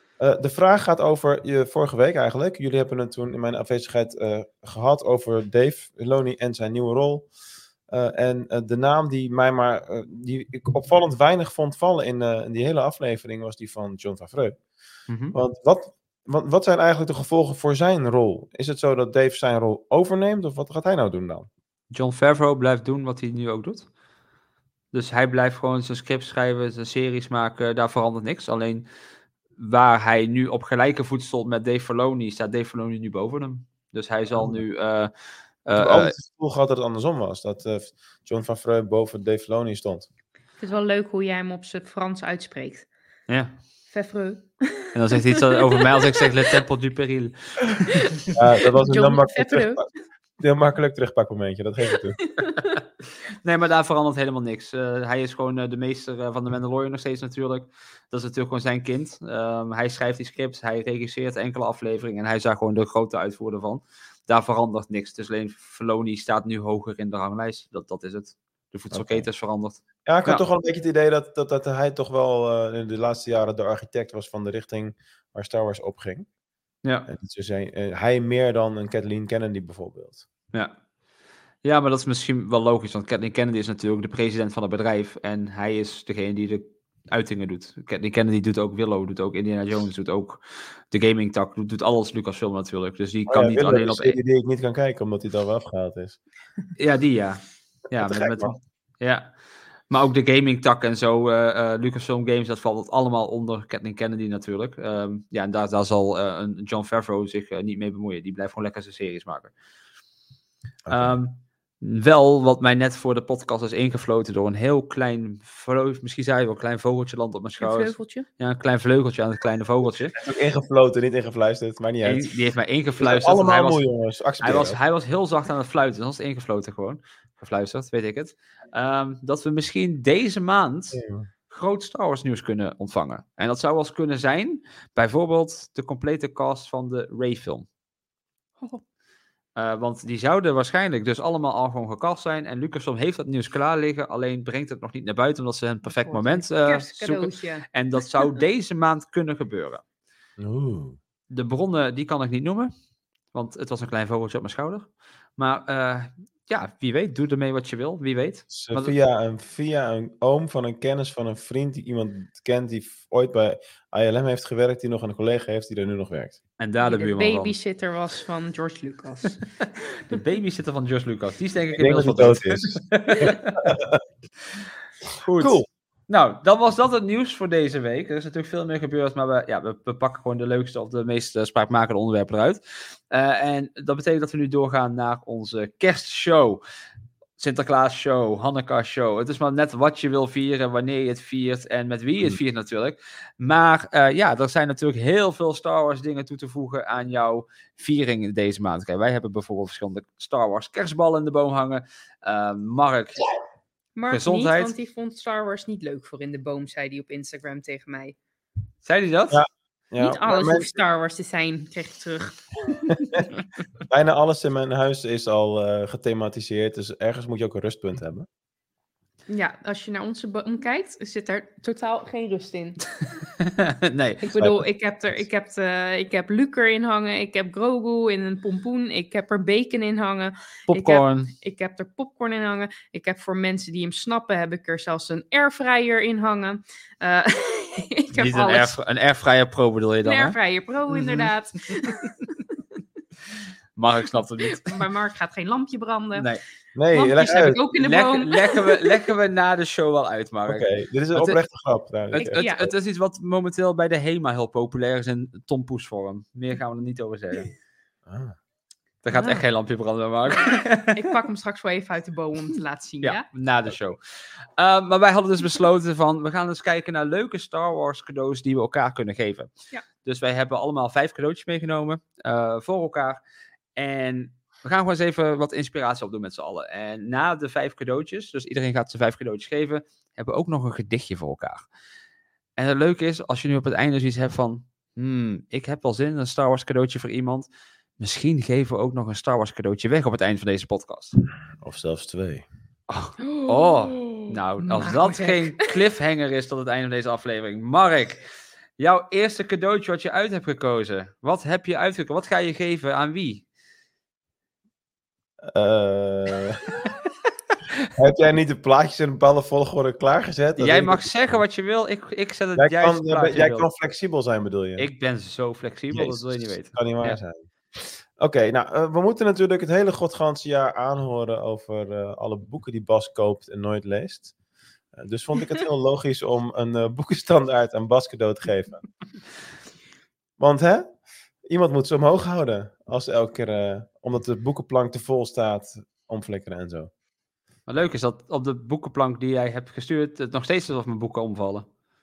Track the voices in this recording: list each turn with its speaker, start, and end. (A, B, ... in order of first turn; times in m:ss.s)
0:00.2-0:07.3 A
0:07.9-0:14.6 A
0:15.1-0:15.4 B
0:15.3-0:21.5 A
0:21.9-0:23.9 B
0:24.9-0:28.9 B
0:29.6-0:35.1 B
0:34.3-0:34.6 A
0:35.6-0:36.1 B
0:35.8-0:40.1 A
0:40.6-0:42.8 C
0:43.3-0:43.6 B
0:43.9-0:46.2 C
0:44.9-0:48.1 B
0:48.3-0:49.8 A
0:48.8-0:49.8 C
0:50.4-0:52.2 A
0:52.3-0:52.7 C
0:53.4-1:10.4 B
1:08.9-1:09.3 A
1:10.0-1:16.3 A
1:17.1-1:20.2 A
1:21.6-1:34.2 B
1:33.3-1:36.2 A
1:36.8-1:39.3 B
1:38.0-1:38.5 A
1:39.9-1:49.5 B
1:50.9-1:51.1 A
1:50.9-2:00.1 B
1:57.6-1:58.2 C
2:00.1-2:02.3 A
2:02.0-2:03.8 B
2:03.0-2:04.8 A
2:04.4-2:17.7 B
2:10.9-2:11.3 A
2:19.6-2:29.8 B
2:26.0-2:27.6 C
2:30.4-2:31.0 A
2:31.3-2:32.7 B
2:33.3-2:38.9 B
2:38.5-2:46.4 A
2:46.6-2:47.5 B
2:46.8-2:49.4 C
2:50.1-2:53.7 B
2:51.8-2:54.0 A
2:55.2-3:06.6 B
2:55.4-2:55.6 A
3:07.4-3:23.3 B
3:24.0-3:28.2 C
3:24.1-3:24.7 B
3:28.8-3:29.4 B
3:29.3-3:30.8 A
3:30.0-3:32.9 C
3:33.9-3:38.2 A
3:39.3-3:42.8 C
3:43.4-3:44.2 B
3:44.2-3:58.8 C
3:50.7-3:51.3 B
3:58.1-4:00.4 B
4:00.0-4:02.2 C
4:00.9-4:01.3 B
4:03.8-4:04.8 B
4:04.5-4:06.3 C
4:06.1-4:06.4 B
4:06.7-4:07.6 A
4:06.9-4:09.0 C
4:07.8-4:11.4 B
4:10.4-4:12.7 A
4:12.1-4:17.5 B
4:12.2-4:12.7 C
4:18.1-4:18.4 A
4:19.0-4:21.1 B
4:19.1-4:19.4 C
4:20.9-4:23.2 C
4:23.0-4:24.0 B
4:24.6-4:29.5 B
4:30.0-4:33.2 B
4:33.8-4:41.6 B
4:42.6-4:47.5 B
4:48.0-4:51.2 B
4:51.6-4:52.4 A
4:52.9-4:58.2 B
4:53.2-4:55.8 C
4:58.8-5:03.4 B
5:05.5-5:06.6 A
5:08.0-5:11.4 A
5:10.6-5:13.6 B
5:12.6-5:14.9 A
5:14.8-5:17.2 B
5:15.9-5:17.4 A
5:18.2-5:24.3 A
5:24.9-5:28.8 A
5:30.4-5:36.9 A
5:37.7-5:41.6 B